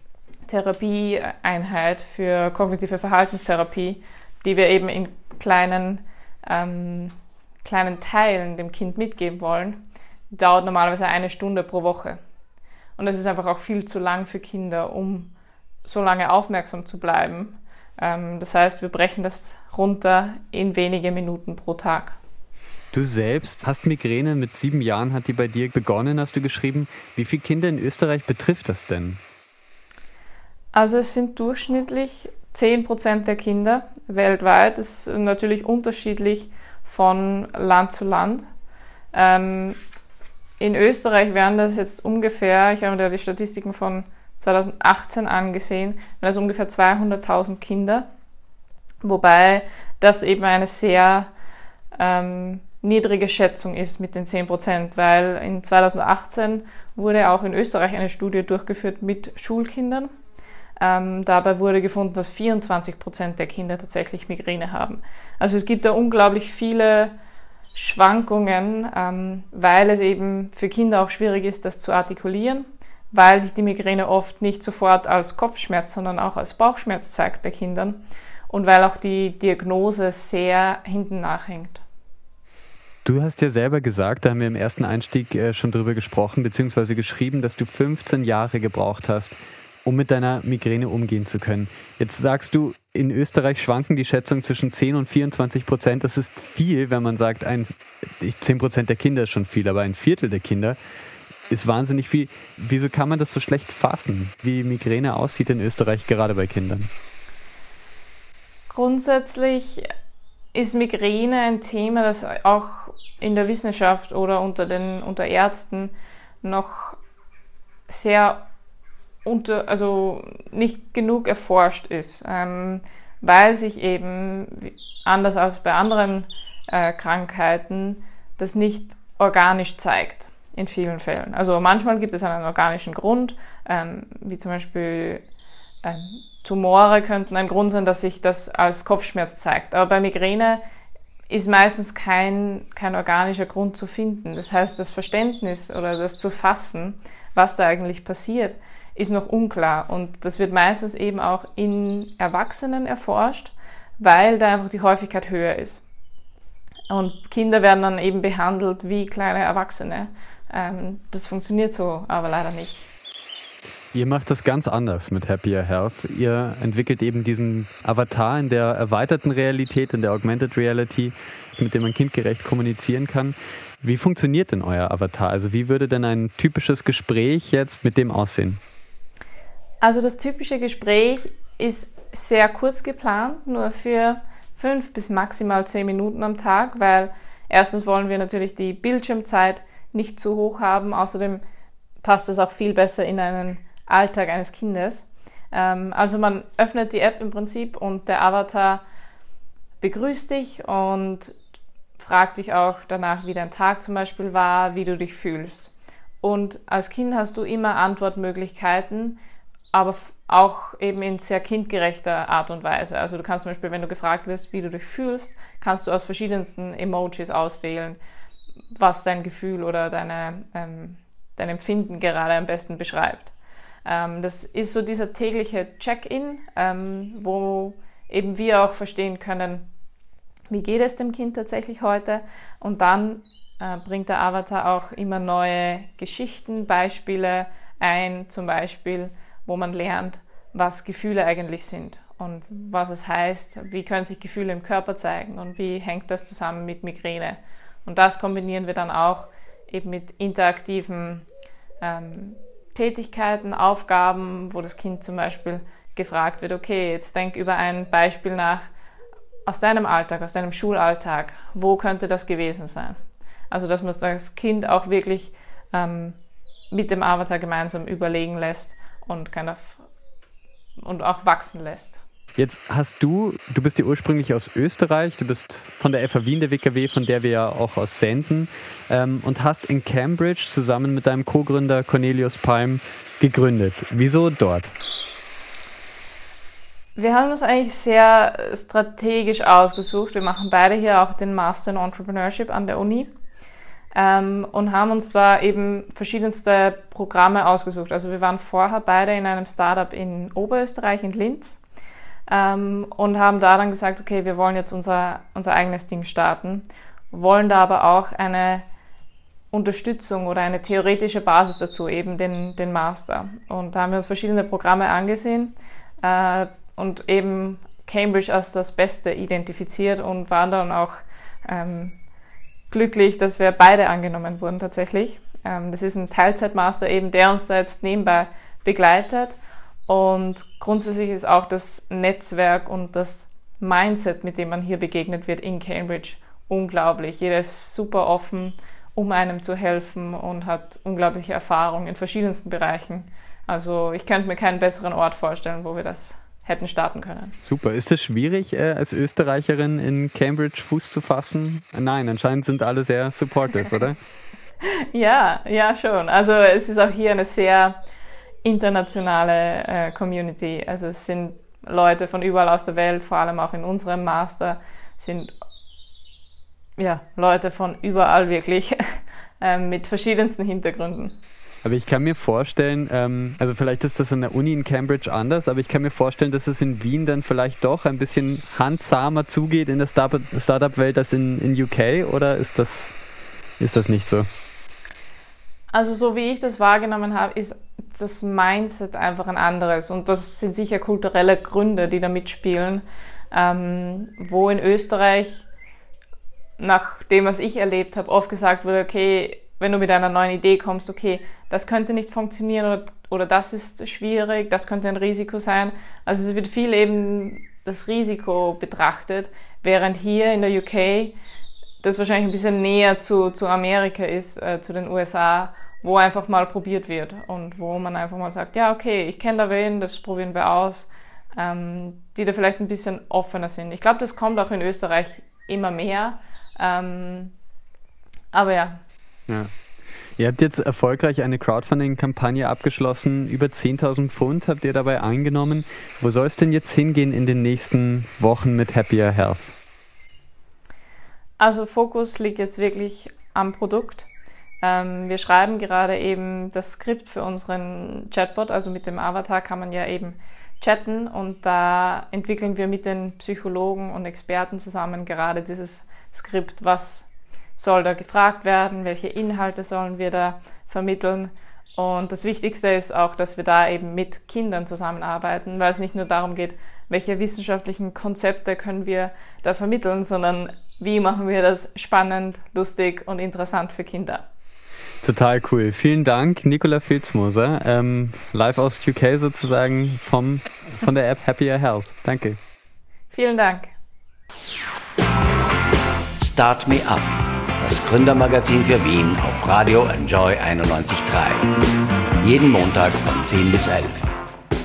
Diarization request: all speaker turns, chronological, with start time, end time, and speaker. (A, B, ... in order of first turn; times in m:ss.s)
0:00.5-0:12.2 A
0:13.0-0:15.3 A
0:15.8-0:22.2 A
0:22.9-0:29.2 B
0:30.7-0:38.4 A
0:39.1-0:39.8 A
0:40.6-0:48.1 A
0:49.0-0:51.3 A
0:52.0-1:00.1 A
1:00.8-1:07.2 A
1:07.7-1:21.8 A
1:23.0-1:40.8 B
1:41.5-1:46.9 B
1:48.7-1:49.9 A
1:50.5-1:57.0 A
1:57.9-1:58.5 A
1:59.2-2:15.2 A
2:15.8-2:20.6 A
2:21.3-2:35.8 A
2:36.9-2:42.9 A
2:43.9-2:58.6 B
2:59.8-3:11.4 A
3:12.0-3:18.8 A
3:19.8-3:21.4 A
3:22.0-3:29.2 A
3:29.7-3:38.0 A
3:38.7-3:43.3 A
3:43.8-3:49.7 A
3:50.5-4:11.3 A
4:11.8-4:18.7 A
4:19.5-4:26.2 A
4:26.7-4:29.9 A
4:30.8-4:32.0 A
4:32.4-4:44.7 B
4:47.0-4:53.1 A
4:53.9-5:01.6 A
5:02.3-5:08.7 A
5:09.5-5:22.0 A
5:22.7-5:47.4 A
5:47.4-5:54.0 B
5:54.6-5:57.8 A
5:58.4-6:05.3 A
6:06.8-6:11.2 A
6:11.6-6:22.9 B
6:23.6-6:24.3 B
6:25.7-6:35.4 A
6:36.6-6:51.2 A
6:51.8-7:07.3 A
7:08.3-7:08.8 A
7:09.3-7:09.6 B
7:10.2-7:19.5 B
7:21.4-7:24.1 A
7:24.6-7:54.3 A
7:55.0-8:02.4 B
8:03.1-8:03.7 A
8:06.2-8:11.5 C
8:12.2-8:14.1 C